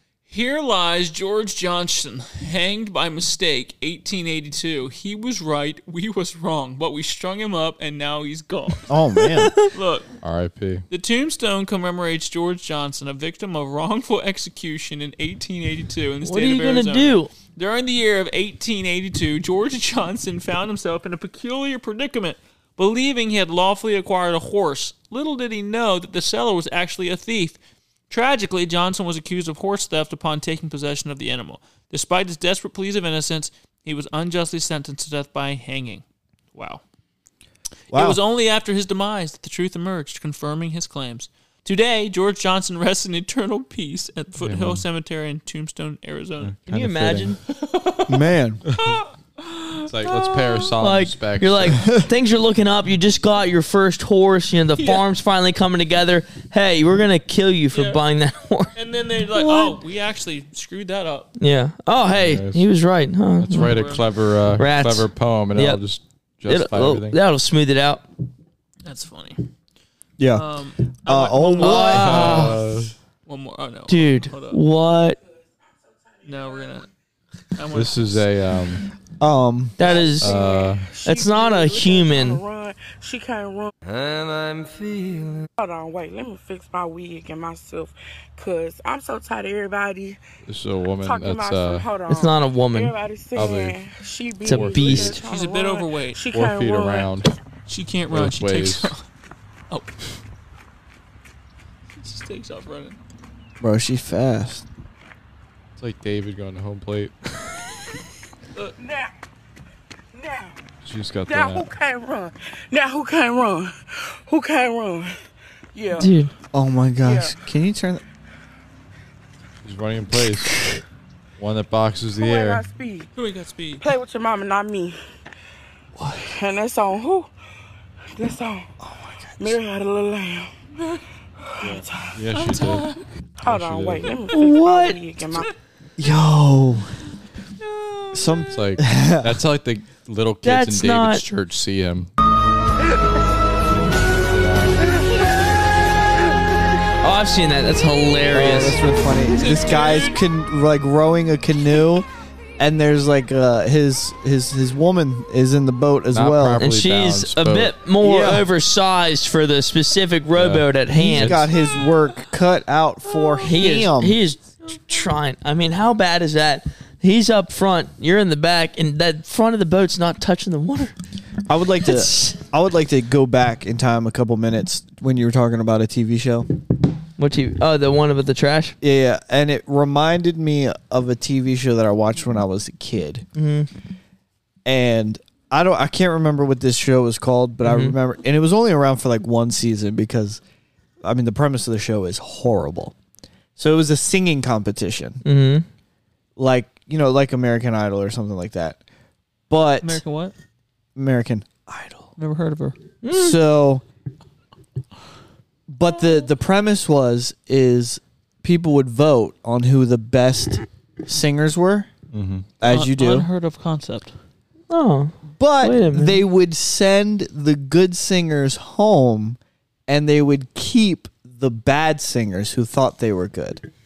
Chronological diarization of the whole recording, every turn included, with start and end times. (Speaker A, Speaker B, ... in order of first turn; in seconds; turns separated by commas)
Speaker A: 0.3-8.9, Speaker B: 8.9-9.5, Speaker A: 9.7-10.1, Speaker C: 10.2-10.8, Speaker A: 10.9-27.6, Speaker D: 16.2-17.3, Speaker A: 28.1-36.8, Speaker B: 37.9-38.2, Speaker A: 37.9-46.5, Speaker C: 44.4-44.8, Speaker C: 46.4-47.4, Speaker D: 46.7-47.4, Speaker A: 47.5-48.1, Speaker B: 48.1-48.6, Speaker A: 48.7-50.7, Speaker C: 49.9-51.8, Speaker D: 50.8-58.7, Speaker A: 54.8-55.0, Speaker A: 57.7-58.0, Speaker A: 58.7-61.3, Speaker D: 59.3-59.8, Speaker D: 61.4-64.0, Speaker C: 62.1-62.6, Speaker C: 63.4-67.2, Speaker A: 63.5-64.0, Speaker D: 64.5-65.8, Speaker D: 66.5-68.0, Speaker A: 68.8-69.4, Speaker B: 70.2-72.6, Speaker A: 70.3-72.4, Speaker D: 71.6-72.6, Speaker C: 71.9-72.9, Speaker A: 73.2-74.6, Speaker D: 73.9-75.2, Speaker A: 76.2-76.9, Speaker A: 77.5-78.3, Speaker C: 77.7-78.9, Speaker B: 79.2-79.9, Speaker D: 79.8-80.4, Speaker E: 79.8-83.7, Speaker C: 80.2-80.9, Speaker D: 81.0-82.4, Speaker E: 85.6-90.2, Speaker C: 90.5-91.9, Speaker E: 91.0-97.2, Speaker D: 92.1-93.0, Speaker C: 93.3-93.8, Speaker C: 94.4-95.2, Speaker D: 94.5-95.2, Speaker A: 95.2-96.2, Speaker C: 96.3-97.3, Speaker A: 97.7-99.0, Speaker C: 98.1-98.9, Speaker A: 99.7-100.0, Speaker A: 102.0-103.0, Speaker B: 103.6-104.7, Speaker C: 105.8-107.1, Speaker E: 108.8-109.1, Speaker E: 110.1-110.5, Speaker C: 110.8-111.7, Speaker E: 111.3-115.2, Speaker E: 115.7-116.1, Speaker D: 116.0-116.3, Speaker B: 116.5-118.0, Speaker E: 117.0-117.3, Speaker C: 119.6-120.8, Speaker C: 121.4-122.6, Speaker E: 122.2-123.1, Speaker A: 123.1-123.8, Speaker E: 123.8-125.0, Speaker E: 126.2-127.3, Speaker E: 128.2-128.7, Speaker B: 128.8-129.6, Speaker E: 129.4-130.5, Speaker E: 131.5-132.8, Speaker C: 131.6-132.9, Speaker A: 132.6-132.8, Speaker E: 133.4-135.5, Speaker C: 133.4-134.2, Speaker D: 134.3-135.0, Speaker B: 136.0-136.9, Speaker B: 138.1-139.4, Speaker C: 138.5-142.1, Speaker D: 140.4-141.2, Speaker C: 143.9-144.8, Speaker D: 147.0-148.8, Speaker B: 148.3-152.1, Speaker A: 149.3-150.2, Speaker B: 152.6-156.6, Speaker C: 156.1-157.7, Speaker D: 156.6-161.4, Speaker B: 158.0-158.5, Speaker C: 160.3-161.4, Speaker B: 160.9-164.2, Speaker D: 163.4-170.9, Speaker B: 171.5-176.5, Speaker D: 171.9-172.4, Speaker D: 177.2-178.8, Speaker B: 178.8-183.2, Speaker D: 183.4-183.7, Speaker B: 184.6-190.4, Speaker D: 187.6-187.9, Speaker B: 191.0-192.9, Speaker B: 193.6-195.2, Speaker D: 195.2-195.7, Speaker B: 196.4-198.8, Speaker B: 199.5-200.0, Speaker A: 199.8-200.3, Speaker B: 200.9-202.1, Speaker A: 202.2-202.8, Speaker D: 203.0-203.4, Speaker B: 203.1-203.8, Speaker B: 205.7-211.9, Speaker C: 212.1-212.4, Speaker B: 212.6-213.3, Speaker A: 212.6-214.1, Speaker D: 214.7-216.2, Speaker B: 215.3-223.6